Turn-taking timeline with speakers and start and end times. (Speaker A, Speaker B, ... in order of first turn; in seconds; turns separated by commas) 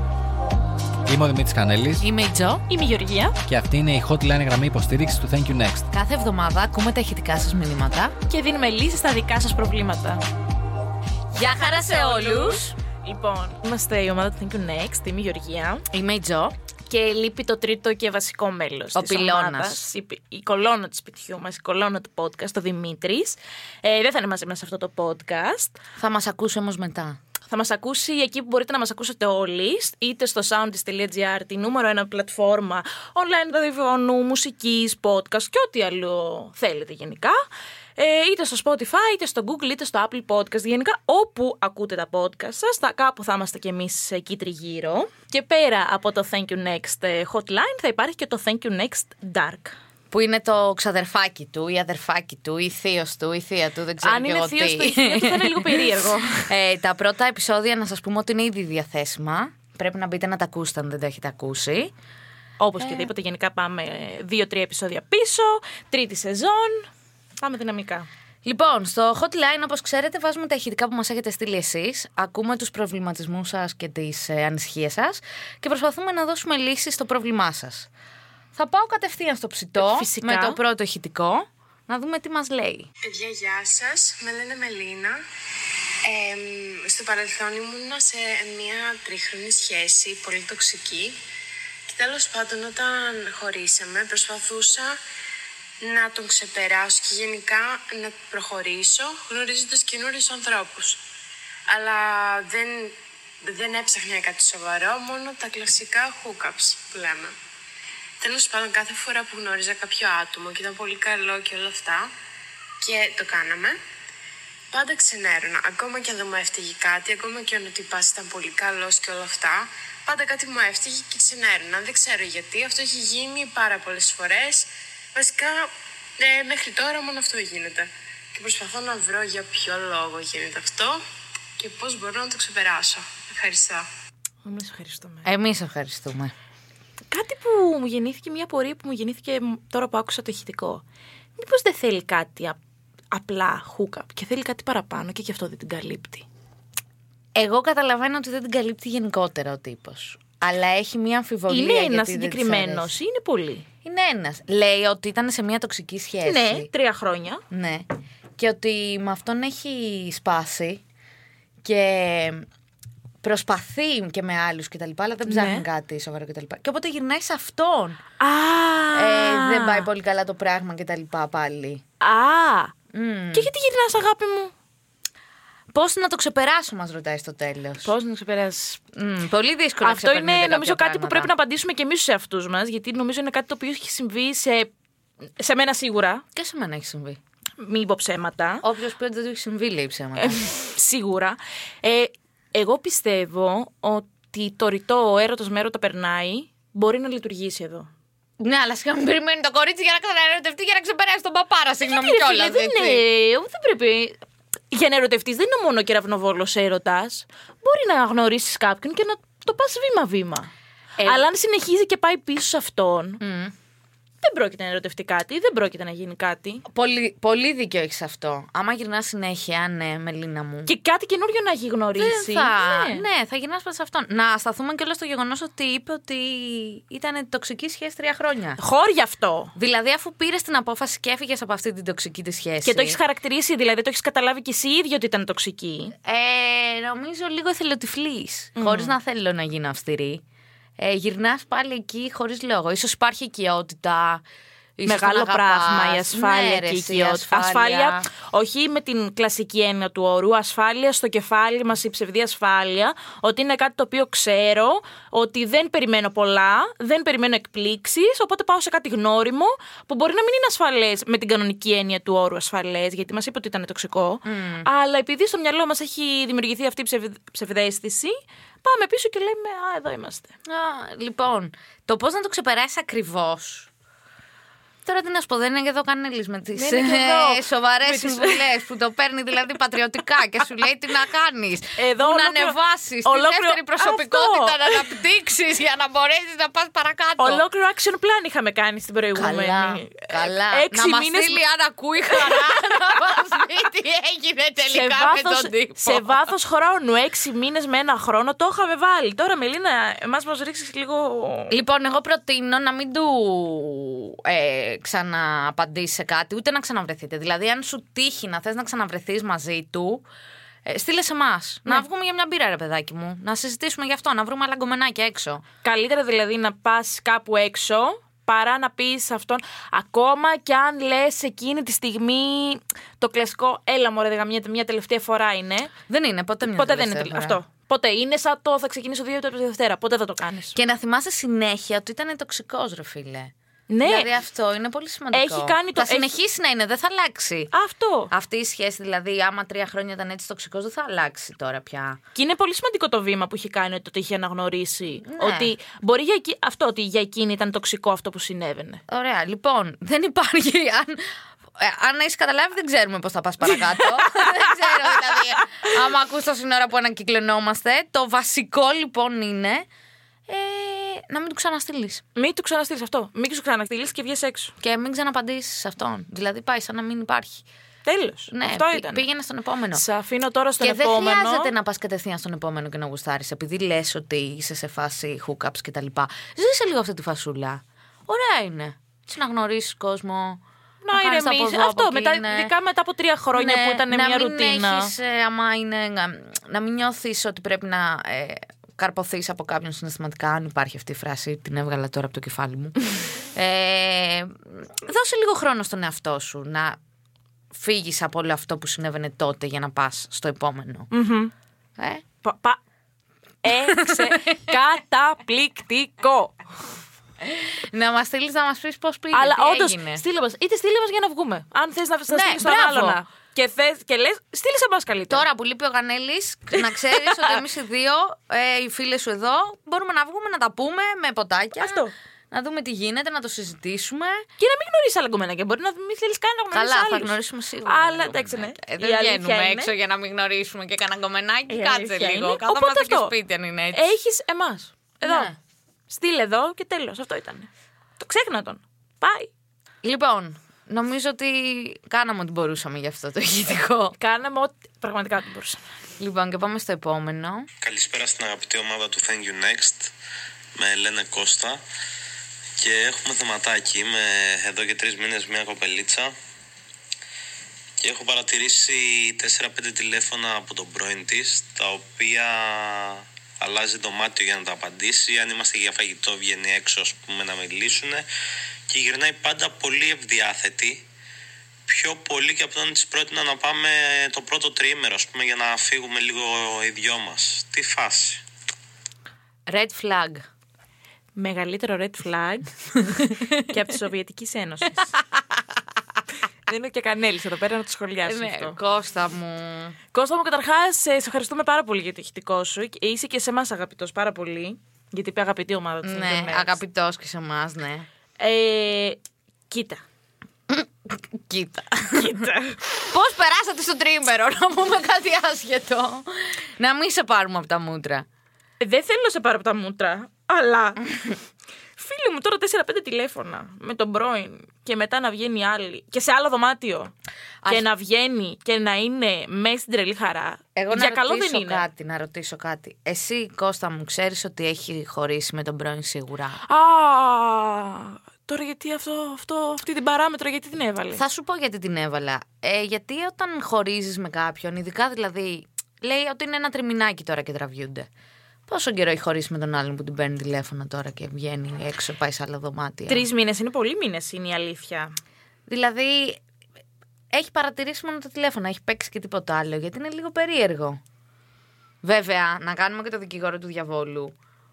Speaker A: 1.1-2.0, Speaker B: 2.0-2.6, Speaker C: 2.7-3.4, Speaker A: 3.5-5.9, Speaker B: 5.9-8.2, Speaker C: 8.3-10.2, Speaker B: 11.3-12.8, Speaker C: 11.5-15.9, Speaker B: 15.9-16.5, Speaker C: 16.9-25.8, Speaker B: 18.9-19.9, Speaker B: 26.0-27.2, Speaker C: 27.5-37.4, Speaker C: 38.0-49.8, Speaker B: 50.1-61.9, Speaker C: 54.0-56.5, Speaker C: 62.6-68.1, Speaker B: 62.8-63.1, Speaker B: 68.4-77.9, Speaker B: 78.5-82.9, Speaker C: 79.8-80.6, Speaker D: 83.0-85.2, Speaker D: 86.0-91.2, Speaker D: 91.9-95.0, Speaker D: 95.8-101.0, Speaker D: 101.7-107.3, Speaker D: 108.2-112.1, Speaker D: 112.8-113.8, Speaker D: 114.7-131.0, Speaker D: 131.6-133.9, Speaker C: 134.4-135.3, Speaker B: 135.2-136.3, Speaker C: 137.1-140.8, Speaker C: 141.4-142.6, Speaker C: 143.1-146.3, Speaker B: 147.3-152.9, Speaker C: 151.5-153.7, Speaker B: 153.8-156.7, Speaker C: 156.2-157.4, Speaker B: 157.5-160.8, Speaker B: 161.6-162.5, Speaker B: 163.2-168.0, Speaker C: 165.2-165.7, Speaker C: 168.2-169.9, Speaker B: 168.9-171.8, Speaker C: 172.0-172.7, Speaker B: 172.9-173.5, Speaker C: 173.3-174.5, Speaker B: 175.7-177.9, Speaker C: 177.8-178.8, Speaker B: 178.9-181.3, Speaker C: 179.8-184.7, Speaker C: 185.4-186.2, Speaker B: 186.3-187.2, Speaker C: 187.6-188.6, Speaker B: 188.6-190.4, Speaker C: 190.2-197.9, Speaker B: 198.4-203.0, Speaker C: 201.8-204.2, Speaker C: 204.7-210.5, Speaker B: 211.0-211.3, Speaker C: 211.0-213.2, Speaker B: 213.2-213.5, Speaker C: 214.2-216.7, Speaker B: 216.7-220.7, Speaker C: 220.7-223.1, Speaker B: 222.0-228.6, Speaker C: 228.6-229.5, Speaker B: 229.6-233.0, Speaker C: 232.6-235.9, Speaker B: 236.0-240.2, Speaker C: 238.6-238.9, Speaker B: 240.8-244.2, Speaker B: 244.8-248.1, Speaker C: 244.9-270.4, Speaker B: 264.2-264.7, Speaker B: 270.5-273.7, Speaker B: 274.9-287.4, Speaker C: 276.5-278.4, Speaker C: 281.8-284.9, Speaker C: 287.2-291.4, Speaker B: 289.1-296.2, Speaker C: 292.1-292.9, Speaker C: 294.7-301.5, Speaker B: 301.5-310.1, Speaker B: 310.6-315.4, Speaker C: 315.6-325.7, Speaker B: 325.9-327.4, Speaker C: 326.5-330.6, Speaker B: 330.6-337.5, Speaker C: 333.7-334.1, Speaker C: 335.1-336.1, Speaker C: 337.5-338.1, Speaker B: 338.1-342.0, Speaker C: 342.1-348.8, Speaker B: 345.1-345.5, Speaker B: 348.9-359.7, Speaker C: 353.8-354.7, Speaker B: 360.3-362.0, Speaker C: 362.2-364.5, Speaker B: 364.6-367.4, Speaker C: 367.9-369.0, Speaker B: 368.3-369.8, Speaker C: 369.7-371.5, Speaker B: 370.6-382.5, Speaker C: 380.8-384.9, Speaker B: 383.3-396.8, Speaker B: 397.5-400.9, Speaker C: 400.9-401.3, Speaker B: 401.8-402.0, Speaker C: 402.2-402.6, Speaker C: 403.4-406.4, Speaker B: 403.5-404.6, Speaker B: 407.2-410.0, Speaker C: 409.1-415.2, Speaker B: 412.1-413.0, Speaker B: 415.1-424.2, Speaker C: 417.0-417.3, Speaker C: 421.6-421.9, Speaker C: 424.4-429.7, Speaker B: 426.5-433.9, Speaker C: 431.5-433.1, Speaker C: 433.7-435.3, Speaker B: 435.0-435.4, Speaker C: 435.9-439.3, Speaker B: 439.8-444.0, Speaker C: 444.0-445.6, Speaker B: 446.0-447.5, Speaker E: 447.6-449.9, Speaker E: 450.6-451.6, Speaker E: 452.6-456.1, Speaker E: 457.8-468.1, Speaker E: 468.7-470.9, Speaker E: 471.7-478.2, Speaker B: 479.5-480.3, Speaker C: 481.2-482.5, Speaker B: 482.9-483.3, Speaker C: 483.4-484.9, Speaker B: 485.1-485.4, Speaker C: 486.5-488.6, Speaker B: 488.1-489.8, Speaker C: 489.9-496.6, Speaker B: 495.8-497.9, Speaker C: 498.2-499.8, Speaker B: 500.5-508.1, Speaker C: 501.9-502.6, Speaker C: 508.6-510.8, Speaker C: 511.8-516.9, Speaker C: 517.5-521.6, Speaker B: 520.6-526.4, Speaker C: 526.4-531.0, Speaker B: 531.0-537.9, Speaker B: 538.5-543.0, Speaker C: 542.9-544.9, Speaker B: 545.5-546.2, Speaker B: 547.1-550.8, Speaker B: 551.8-554.1